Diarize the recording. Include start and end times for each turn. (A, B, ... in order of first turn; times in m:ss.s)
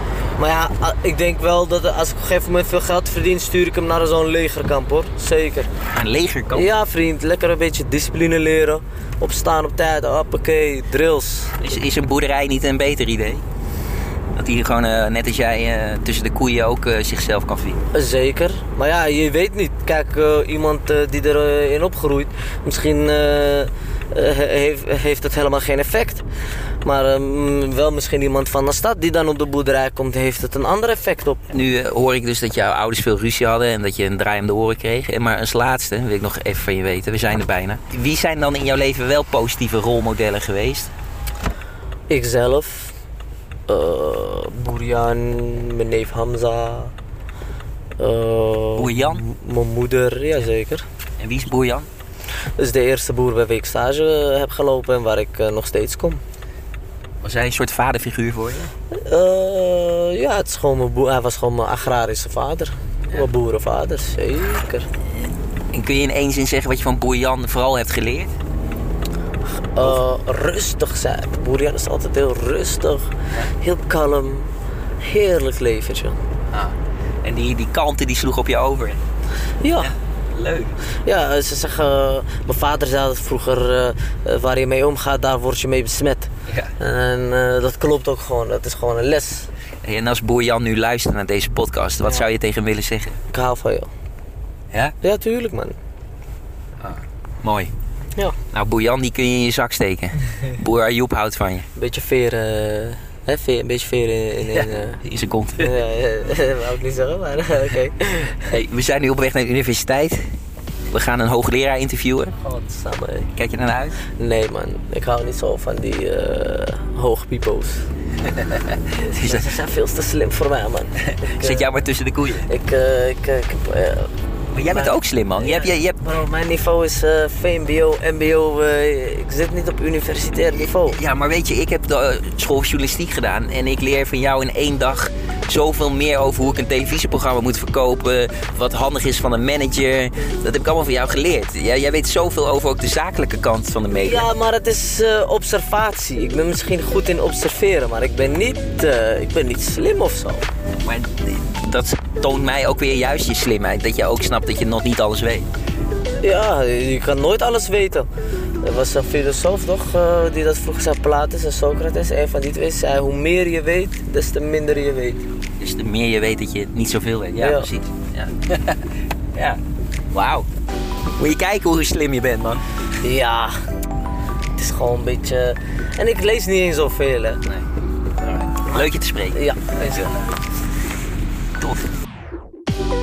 0:00.4-0:05.7 A
0:05.9-0:06.7 B
0:06.5-0:11.6 A
0:11.6-0:13.4 B
0:14.3-0:17.8 B
0:17.9-0:26.2 A
0:26.8-0:31.4 A
0:31.5-0:40.9 B
0:42.1-0:42.9 A
0:43.7-0:46.9 A
0:48.0-0:50.8 A
0:48.8-0:49.2 B
0:51.2-0:51.9 B
0:52.6-0:56.2 A
0:57.2-0:58.7 B
0:58.9-1:04.9 A
1:05.7-1:08.3 B
1:09.7-1:14.5 A
1:15.0-1:16.2 A
1:16.5-1:19.0 B
1:19.6-1:19.9 A
1:19.8-1:20.8 B
1:21.0-1:29.5 A
1:26.5-1:26.7 B
1:29.8-1:33.2 B
1:32.0-1:32.3 A
1:33.3-1:33.9 A
1:35.0-1:35.8 A
1:36.8-1:37.7 B
1:38.5-1:41.6 B
1:41.8-1:45.0 A
1:44.5-1:45.7 B
1:45.6-1:48.5 A
1:48.5-1:50.2 B
1:50.9-1:52.3 B
1:52.4-1:53.3 A
1:53.3-1:54.0 B
1:54.2-1:57.8 A
1:58.3-1:59.5 B
1:59.0-2:01.8 A
2:01.2-2:02.5 B
2:02.5-2:11.0 A
2:04.5-2:06.0 B
2:10.7-2:24.2 B
2:23.9-2:30.5 A
2:30.8-2:35.5 B
2:36.2-2:38.1 A
2:38.6-2:45.2 A
2:45.6-2:49.6 B
2:47.4-2:47.7 A
2:50.1-2:50.5 B
2:51.2-2:52.6 B
2:53.0-2:53.6 A
2:54.6-2:57.4 A
2:58.2-3:00.1 B
2:59.3-3:00.2 A